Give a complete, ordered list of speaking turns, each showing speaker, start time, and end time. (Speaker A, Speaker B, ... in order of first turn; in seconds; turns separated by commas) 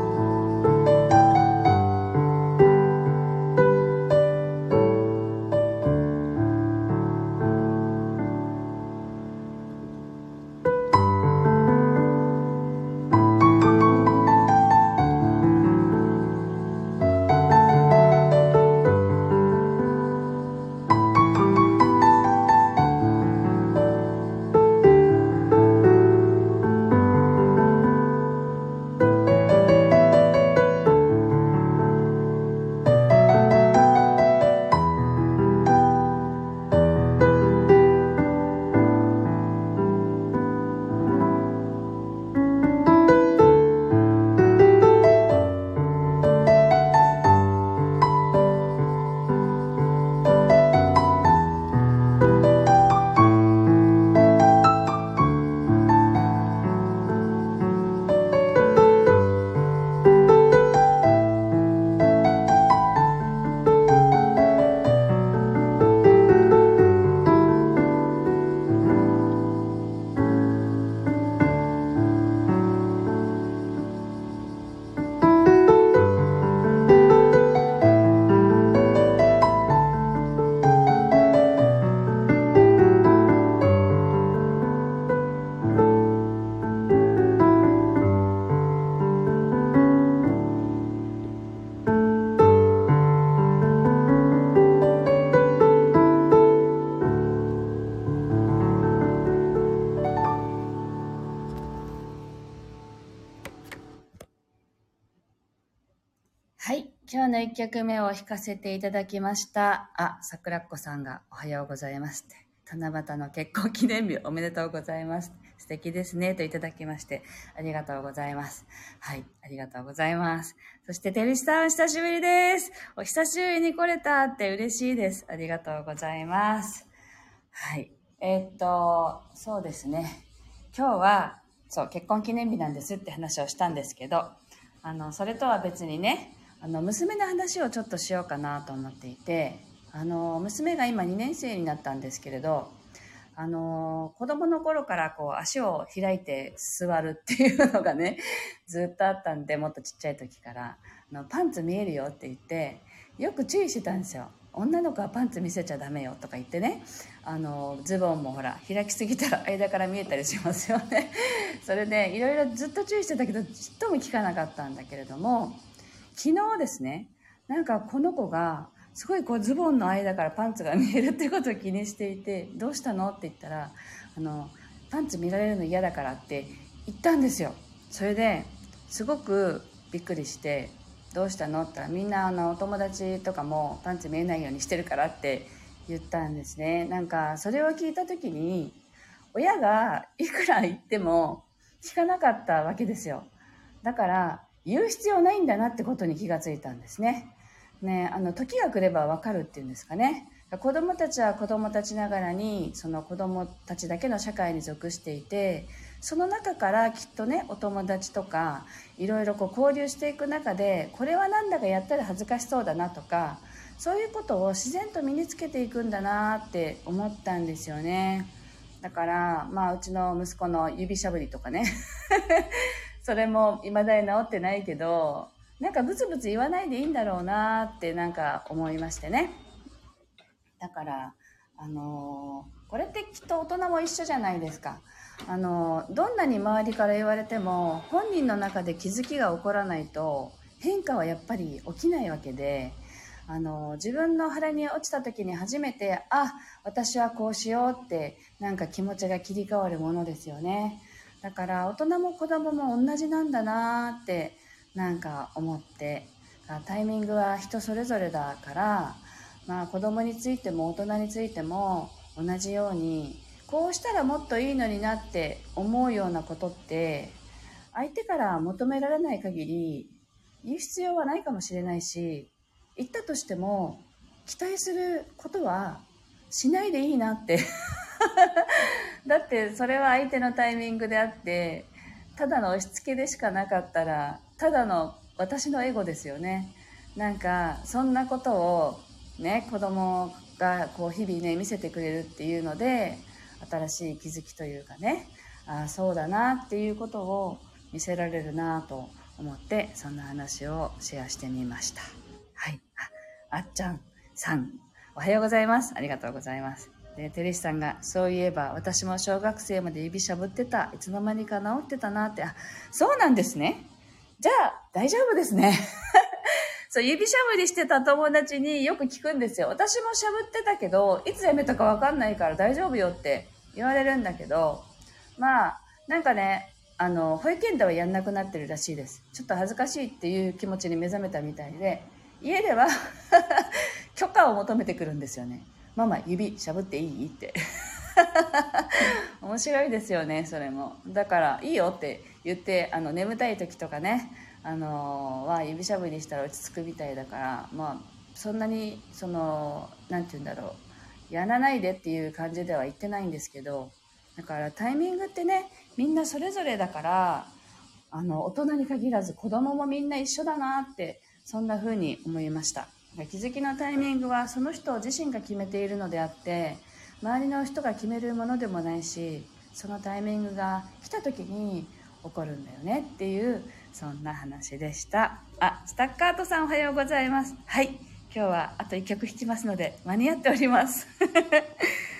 Speaker A: 106.6-126.9, Speaker A: 127.5-142.8, Speaker A: 143.3-188.8, Speaker A: 189.3-193.3, Speaker A: 193.8-229.4, Speaker A: 230.6-267.2, Speaker A: 267.7-277.4, Speaker A: 278.0-337.4, Speaker A: 337.9-357.3, Speaker A: 357.9-381.6